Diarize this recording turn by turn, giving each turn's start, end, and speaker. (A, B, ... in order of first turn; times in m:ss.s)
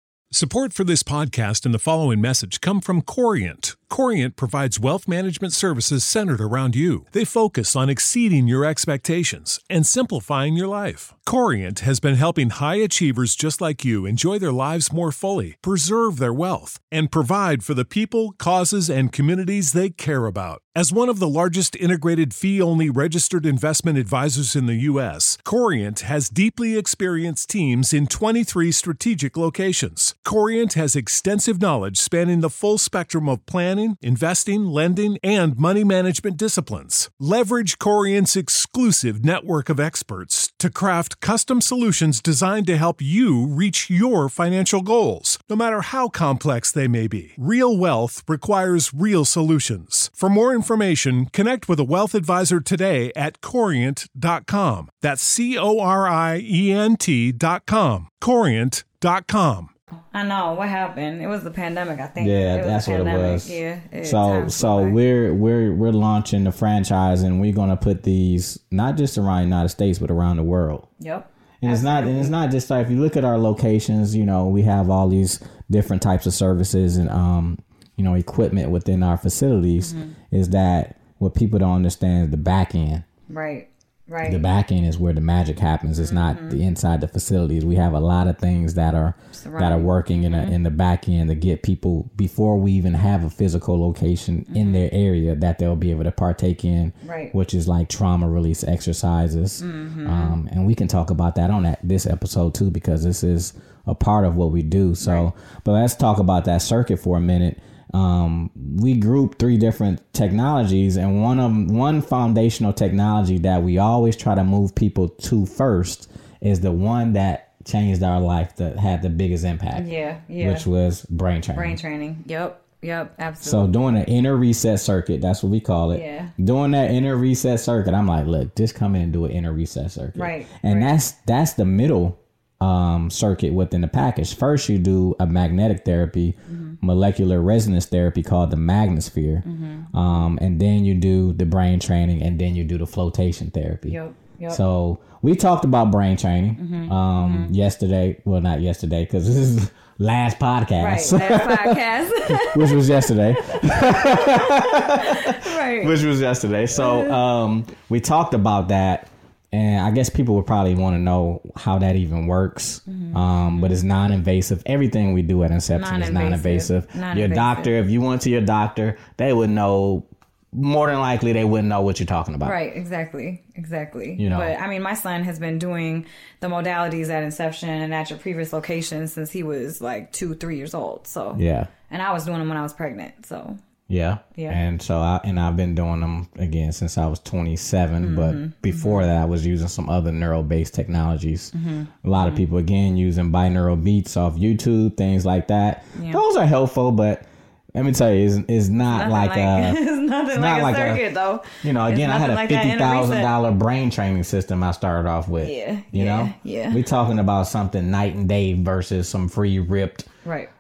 0:00.3-0:59.7 A
1:00.1-1:05.0 B
1:02.2-1:10.9 C
1:11.0-1:12.3 B
1:11.6-1:23.0 C
1:19.8-1:20.2 B
1:23.3-1:24.4 B
1:24.2-2:01.8 C
1:26.0-1:26.6 B
1:29.4-1:30.6 B
1:34.5-1:34.8 B
1:37.0-1:37.4 B
1:39.6-1:40.4 B
1:45.0-1:45.3 B
1:59.7-2:00.6 B
2:01.5-2:03.7 B
2:03.4-2:24.0 C
2:05.9-2:06.3 B
2:10.2-2:10.9 B
2:16.5-2:16.8 B
2:19.4-2:20.3 B
2:23.9-2:24.6 B
2:24.5-2:52.6 C
2:26.6-2:27.5 B
2:30.8-2:32.9 B
2:33.4-2:36.0 B
2:36.7-2:37.2 B
2:42.9-2:43.8 B
2:45.7-2:47.7 B
2:52.4-3:03.6 B
2:54.2-2:54.5 C
3:01.4-3:01.7 C
3:03.9-3:11.5 C
3:08.0-3:09.1 B
3:11.6-3:12.4 B
3:12.0-3:19.8 C
3:16.0-3:16.2 B
3:18.9-3:23.3 B
3:20.3-3:21.0 C
3:21.6-3:30.1 C
3:25.4-3:26.8 B
3:30.2-3:30.5 B